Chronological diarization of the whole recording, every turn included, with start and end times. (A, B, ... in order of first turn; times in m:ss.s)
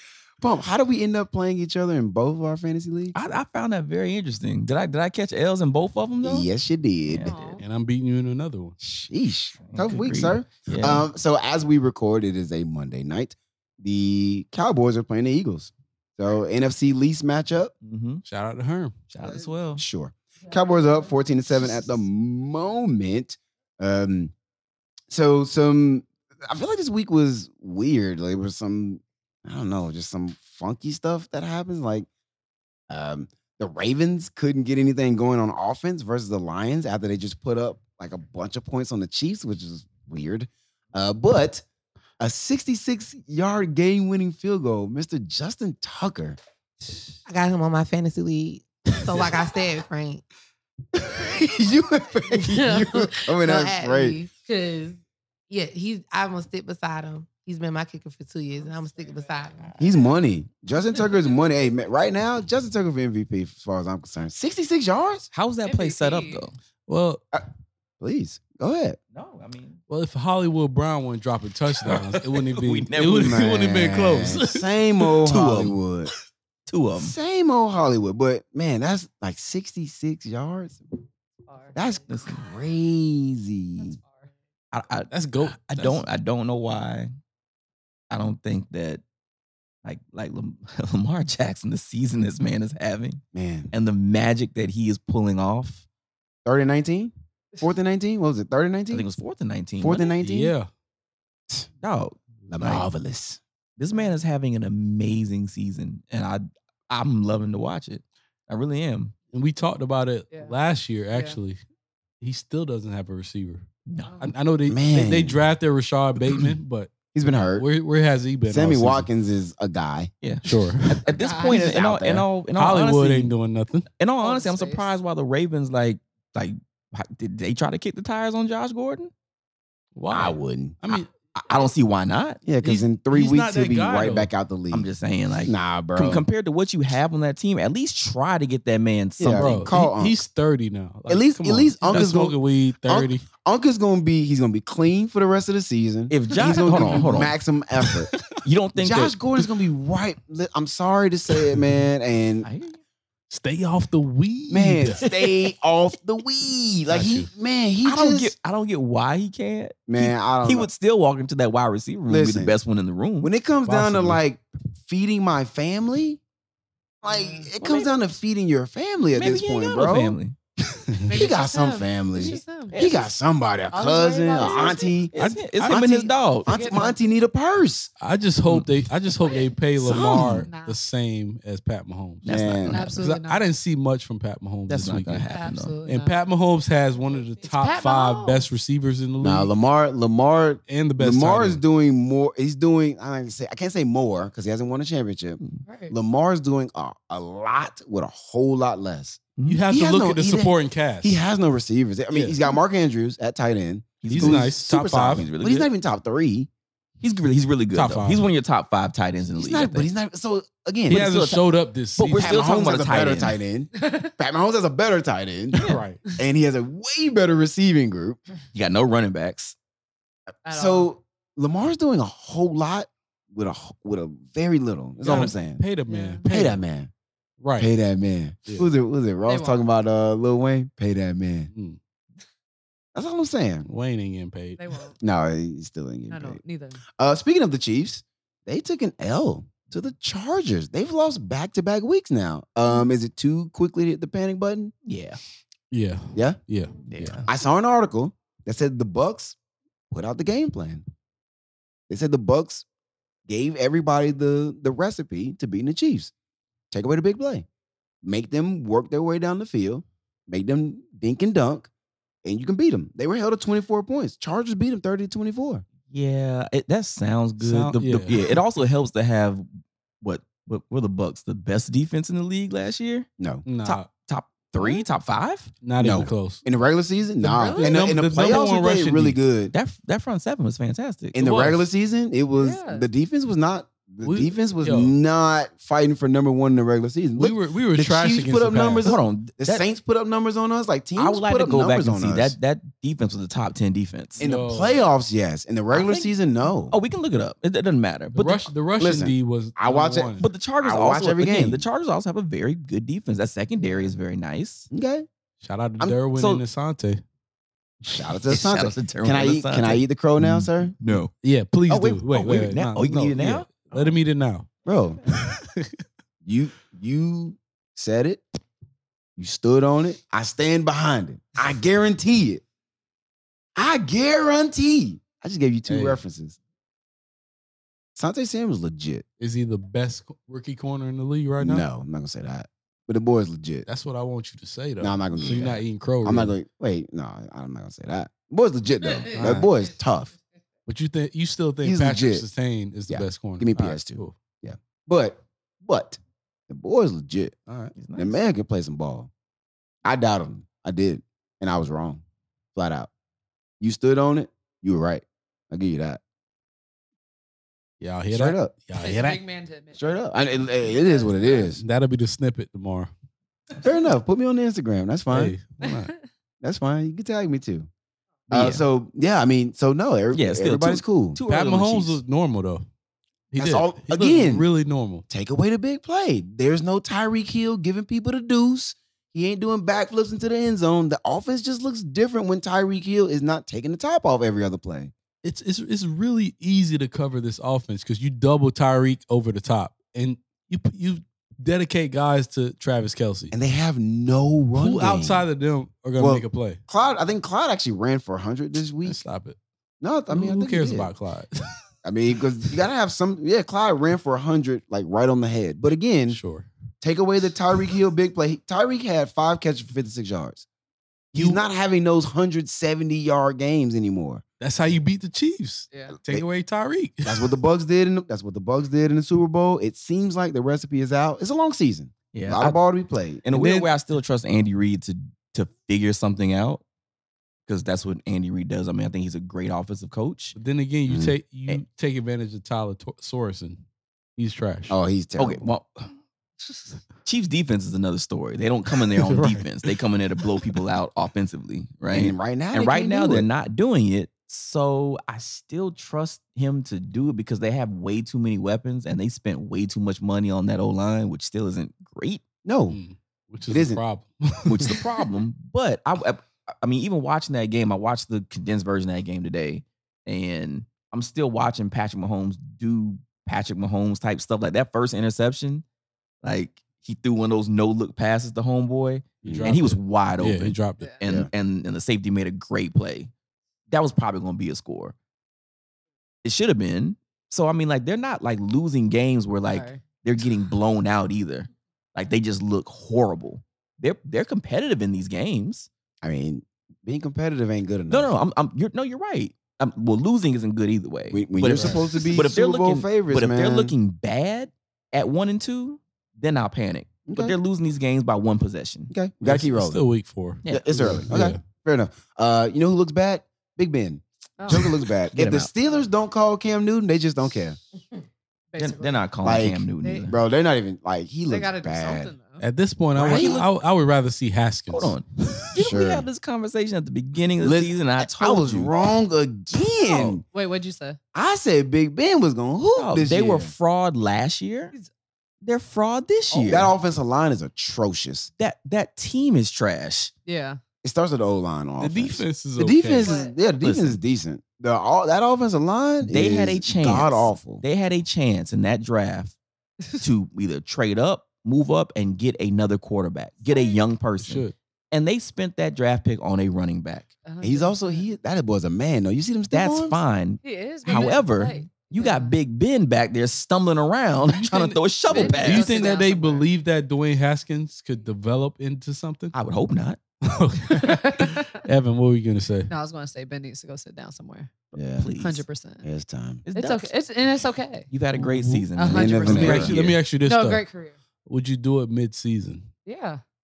0:00.4-0:03.1 A
0:03.1-0:06.5 B
0:06.2-0:07.4 A
0:07.1-0:07.5 B
0:07.2-0:07.6 C
0:07.6-0:08.8 D
0:08.8-0:17.7 A
0:09.6-0:11.1 B
0:17.8-0:18.2 B
0:18.2-0:18.9 D
0:19.1-0:19.8 B
0:19.2-0:24.3 A
0:25.1-0:32.1 A
0:32.9-0:41.6 A
0:42.2-0:46.4 A
0:47.2-0:50.2 E
0:50.9-0:54.2 A
0:52.4-0:59.7 E
0:59.8-1:05.3 A
1:05.3-1:06.6 B
1:05.6-1:06.4 C
1:06.9-1:07.2 D
1:08.0-1:09.0 A
1:09.1-1:09.8 B
1:09.9-1:15.0 D
1:11.8-1:13.4 B
1:13.0-1:16.1 A
1:15.3-1:15.8 B
1:16.7-1:17.1 B
1:16.9-1:21.0 A
1:21.5-1:22.0 C
1:21.7-1:24.0 A
1:22.1-1:22.4 B
1:23.8-1:24.1 C
1:24.7-1:27.1 B
1:25.1-1:26.0 D
1:28.1-1:29.0 B
1:29.8-1:35.8 B
1:33.3-1:33.7 A
1:36.4-1:39.1 A
1:38.9-1:40.1 B
1:39.8-1:40.5 A
1:40.2-1:40.7 D
1:41.8-1:42.9 B
1:42.5-1:43.4 A
1:43.8-1:49.1 B
1:49.3-1:51.6 D
1:51.1-1:51.4 C
1:52.2-1:53.6 D
1:53.9-1:54.2 B
1:54.0-1:54.3 C
1:54.2-1:56.9 D
1:54.7-1:55.4 A
1:57.1-1:57.6 A
1:57.6-1:59.1 D
1:58.5-2:00.1 A
2:00.2-2:03.3 B
2:00.4-2:01.1 D
2:01.1-2:01.7 C
2:01.4-2:02.3 A
2:02.6-2:03.9 D
2:04.0-2:09.1 B
2:04.2-2:04.9 C
2:09.9-2:11.1 D
2:10.1-2:10.8 A
2:10.9-2:12.4 B
2:12.4-2:14.9 A
2:12.6-2:14.3 D
2:14.7-2:19.7 B
2:15.4-2:16.2 A
2:19.2-2:20.2 A
2:19.3-2:23.2 D
2:21.1-2:28.1 A
2:26.1-2:27.3 B
2:26.6-2:27.0 D
2:27.9-2:28.2 D
2:28.4-2:29.1 B
2:28.8-2:32.5 A
2:28.9-2:29.4 D
2:32.4-2:32.8 B
2:33.3-2:35.0 D
2:34.5-2:38.3 A
2:36.9-2:37.3 D
2:37.8-2:43.3 B
2:39.9-2:40.7 A
2:42.1-2:42.6 A
2:43.2-2:46.2 A
2:43.6-2:44.2 D
2:47.0-2:50.2 A
2:47.1-2:47.5 C
2:47.6-2:47.9 B
2:49.1-2:50.3 B
2:50.9-2:57.9 A
2:51.1-2:52.8 C
2:52.2-2:53.1 B
2:53.7-2:54.9 C
2:54.5-2:54.9 E
2:55.1-2:56.5 B
2:55.2-2:55.8 D
2:56.5-2:57.0 C
2:58.0-3:05.3 D
2:59.8-3:00.5 A
2:59.9-3:00.2 B
3:00.2-3:00.8 C
3:02.2-3:03.0 B
3:02.2-3:02.9 A
3:02.7-3:03.4 C
3:04.7-3:05.7 B
3:05.3-3:06.2 C
3:05.8-3:09.5 D
3:07.4-3:08.5 C
3:09.2-3:26.5 A
3:10.7-3:11.6 D
3:15.6-3:16.0 C
3:19.4-3:19.6 B
3:19.5-3:21.2 D
3:22.1-3:22.4 D
3:24.0-3:25.7 B
3:24.1-3:25.3 D
3:27.0-3:29.9 B
3:27.7-3:28.2 D
3:29.4-3:31.2 A
3:30.9-3:33.4 B
3:30.9-3:32.5 D
3:32.1-3:38.2 A
3:33.8-3:34.1 C
3:35.5-3:36.0 D
3:38.5-3:39.5 B
3:40.4-3:40.9 C
3:40.4-3:45.6 A
3:45.0-3:46.6 D
3:45.9-3:46.3 C
3:46.2-3:46.9 A
3:47.4-3:47.7 D
3:47.6-3:51.5 A
3:49.2-3:49.6 C
3:51.5-3:51.8 D
3:52.9-3:53.7 A
3:53.6-3:54.6 D
3:54.6-3:55.0 C
3:55.0-3:56.4 A
3:56.1-3:56.8 C
3:56.9-4:04.7 A
4:04.8-4:05.2 B
4:05.7-4:07.2 D
4:06.9-4:07.2 B
4:07.2-4:09.4 A
4:09.9-4:10.8 A
4:11.9-4:12.6 A
4:13.3-4:16.1 A
4:16.7-4:17.4 A
4:18.0-4:21.7 A
4:22.2-4:25.6 A
4:25.9-4:29.4 B
4:27.4-4:28.2 D
4:30.0-4:33.1 B
4:33.2-4:33.4 A
4:33.4-4:33.9 D
4:33.6-4:35.5 B
4:35.6-4:36.4 D
4:35.8-4:39.5 A
4:37.2-4:39.2 D
4:37.4-4:37.8 C
4:39.5-4:41.2 B
4:41.1-4:52.4 A
4:41.2-4:41.6 D
4:42.4-4:42.9 C
4:44.0-4:44.9 D
4:47.2-4:48.9 D
4:48.8-4:49.6 B
4:51.0-4:54.2 B
4:54.2-4:54.8 D
4:54.2-4:56.8 A
4:55.7-4:56.1 B
4:56.7-4:58.5 B
4:58.1-5:00.3 D
4:58.8-5:01.6 A
5:00.2-5:04.7 B
5:04.7-5:05.1 A
5:05.4-5:07.0 D
5:06.1-5:06.4 B
5:07.8-5:10.7 A
5:08.3-5:11.1 B
5:10.9-5:14.5 D
5:11.7-5:12.1 A
5:12.1-5:13.9 B
5:14.6-5:15.0 A
5:15.3-5:15.7 D
5:16.2-5:18.2 A
5:19.2-5:22.4 A
5:23.6-5:26.4 A
5:25.7-5:26.0 D
5:27.9-5:29.0 A
5:29.2-5:31.6 D
5:31.4-5:33.7 A
5:33.6-5:36.3 D
5:34.8-5:40.1 A
5:39.1-5:39.5 D
5:40.7-5:44.2 D
5:41.6-5:42.2 A
5:42.9-5:49.1 A
5:47.8-5:48.2 B
5:49.8-5:52.0 A
5:52.5-5:52.9 A
5:53.6-5:56.0 A
5:57.8-5:59.2 D
5:58.1-5:58.5 A
5:58.8-5:59.9 C
5:59.7-6:01.6 A
6:00.6-6:01.4 C
6:01.5-6:02.9 D
6:03.6-6:05.4 A
6:05.1-6:05.9 D
6:05.6-6:06.0 C
6:06.4-6:07.7 A
6:08.3-6:11.2 A
6:08.3-6:08.6 B
6:10.1-6:12.0 B
6:11.3-6:12.6 D
6:13.3-6:15.0 D
6:13.4-6:14.5 A
6:15.1-6:24.9 A
6:25.2-6:33.3 D
6:33.3-6:35.2 A
6:34.6-6:36.6 D
6:36.0-6:39.0 A
6:38.8-6:39.4 D
6:39.8-6:40.9 A
6:40.1-6:41.6 D
6:41.8-6:46.2 A
6:46.1-6:46.5 D
6:46.8-6:50.4 A
6:51.1-6:54.2 A
6:51.1-6:51.4 D
6:54.4-6:57.3 D
6:57.0-7:03.2 A
7:02.1-7:02.6 B
7:03.2-7:06.6 B
7:03.3-7:03.7 D
7:07.5-7:10.4 B
7:10.3-7:13.6 D
7:10.8-7:11.2 A
7:14.2-7:14.8 D
7:14.7-7:15.5 A
7:15.2-7:15.9 B
7:17.0-7:32.2 B
7:18.9-7:19.5 D
7:21.9-7:23.3 A
7:32.4-7:32.8 A
7:32.7-7:34.8 D
7:33.5-7:33.8 A
7:34.4-7:45.6 B
7:46.2-7:53.1 B
7:49.2-7:50.9 D
7:49.2-7:49.5 A
7:51.0-7:51.3 A
7:53.7-7:54.9 B
7:56.2-8:05.7 B
7:59.5-7:59.8 C
8:06.0-8:08.1 A
8:07.9-8:18.9 B
8:11.1-8:13.7 A
8:17.1-8:17.4 A
8:18.9-8:19.8 A
8:19.2-8:21.4 D
8:20.5-8:27.6 A
8:24.4-8:24.6 C
8:25.1-8:25.5 B
8:28.5-8:29.1 C
8:28.6-8:30.2 B
8:29.2-8:32.1 A
8:29.8-8:30.1 C
8:31.3-8:32.4 C
8:32.4-8:35.4 D
8:32.9-8:33.4 A
8:33.0-8:33.4 B
8:34.7-8:38.7 B
8:35.5-8:36.1 A
8:37.4-8:40.2 A
8:39.8-8:40.2 B
8:40.3-8:41.0 C
8:41.1-8:43.5 A
8:42.8-8:44.7 B
8:45.4-8:46.7 B
8:46.3-8:46.6 C
8:46.4-8:48.3 A
8:48.4-8:50.1 B
8:50.2-8:50.6 C
8:50.8-8:57.6 A
8:51.8-8:53.1 D
8:53.0-8:53.3 C
8:53.6-8:54.0 B
8:56.0-8:59.4 B
9:00.0-9:07.1 B
9:03.5-9:03.8 C
9:04.2-9:04.5 D
9:07.2-9:08.1 C
9:07.4-9:10.0 A
9:09.5-9:15.9 B
9:10.4-9:12.4 C
9:14.3-9:19.3 D
9:15.1-9:16.5 C
9:19.3-9:20.0 B
9:20.2-9:22.7 D
9:20.8-9:21.6 C
9:22.7-9:24.5 C
9:24.7-9:25.1 A
9:25.0-9:25.4 B
9:25.2-9:25.9 C
9:25.8-9:26.4 A
9:26.4-9:26.9 B
9:26.5-9:27.9 C
9:27.9-9:30.0 B
9:28.2-9:28.6 D
9:28.8-9:29.6 C
9:28.9-9:29.8 A
9:29.3-9:30.6 D
9:30.2-9:30.9 C
9:31.2-9:32.7 D
9:32.8-9:33.2 C